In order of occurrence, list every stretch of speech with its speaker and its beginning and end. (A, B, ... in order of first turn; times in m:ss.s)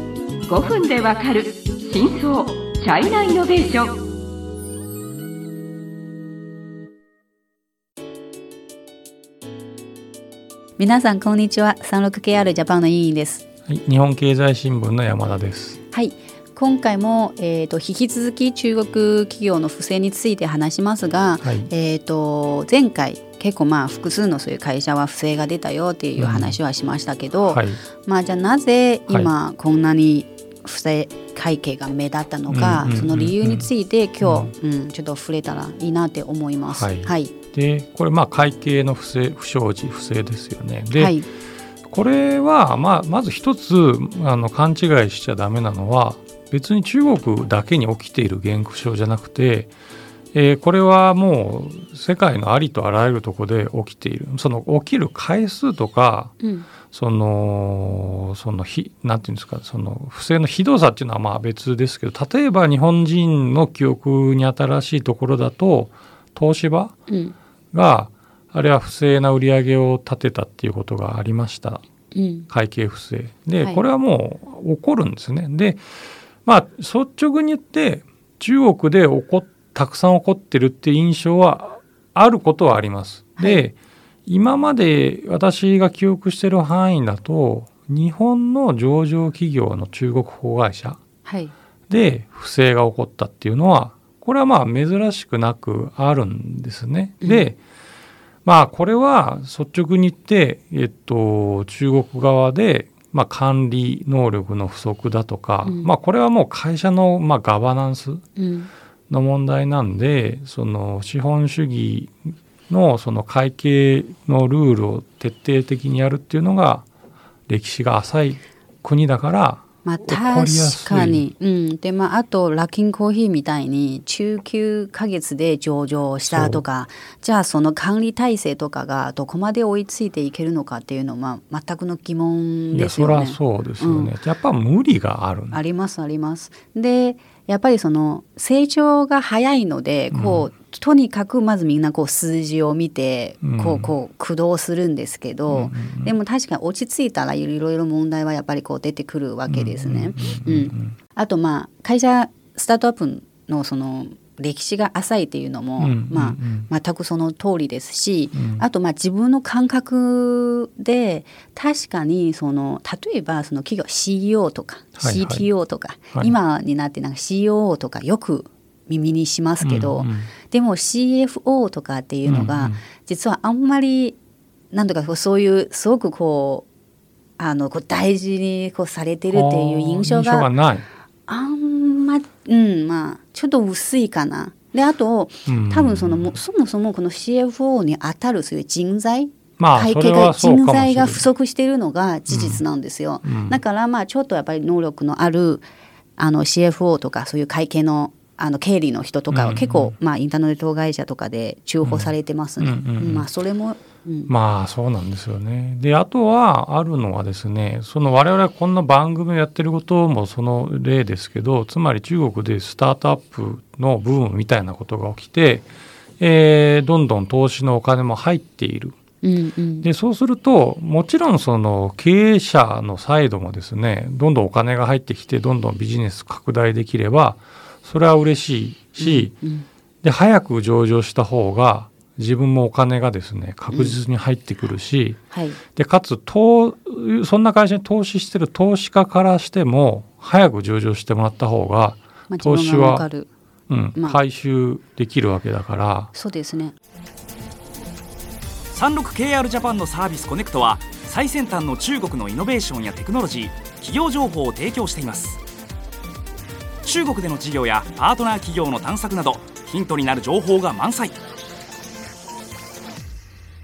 0:00.4-0:04.0 A
0:10.8-0:13.4 B
0:13.7-0:15.8 C
0:15.9-0:37.4 B
0:21.4-0:21.7 C
0:26.2-0:26.6 C
0:27.4-0:27.8 C
0:32.5-0:33.7 C
0:34.2-0:34.5 C
0:36.7-0:41.2 C
0:40.9-0:41.3 B
0:41.9-0:49.7 C
0:50.3-0:56.3 C
0:56.4-0:56.7 B
0:56.9-1:07.0 C
1:07.1-1:07.4 B
1:07.7-1:11.8 C
1:12.1-1:12.5 B
1:12.5-1:15.8 C
1:16.4-1:23.8 C
1:23.4-1:23.6 B
1:24.3-1:31.0 C
1:31.2-1:31.5 B
1:31.9-1:37.6 C
1:37.2-1:37.5 B
1:38.4-1:48.2 C
1:45.6-1:45.9 B
1:48.4-1:48.7 B
1:49.1-1:56.9 C
1:57.5-2:01.3 C
1:59.8-2:14.1 B
2:06.2-2:06.6 C
2:12.7-2:15.6 C
2:15.5-2:54.2 B
2:20.1-2:20.5 C
2:23.4-2:23.9 C
2:25.5-2:26.1 C
2:29.5-2:31.0 C
2:35.8-2:36.7 C
2:38.4-2:38.6 C
2:45.0-2:45.5 C
2:49.6-2:50.3 C
2:52.3-2:52.8 C
2:54.7-2:56.7 B
2:57.4-3:00.5 B
2:59.3-3:00.9 C
3:01.3-3:24.3 B
3:05.5-3:06.4 C
3:09.6-3:11.3 C
3:12.3-3:12.6 C
3:13.2-3:13.6 C
3:19.3-3:20.0 C
3:21.8-3:23.3 C
3:24.3-3:35.7 C
3:36.2-3:39.0 C
3:39.2-3:39.9 B
3:39.8-3:49.4 C
3:49.0-3:49.7 B
3:50.0-3:55.2 C
3:53.7-3:54.0 B
3:55.3-3:55.6 B
3:55.8-4:03.1 C
4:02.3-4:03.3 B
4:03.7-4:06.1 C
4:06.1-4:06.8 B
4:08.7-4:15.4 D
4:16.8-4:21.2 D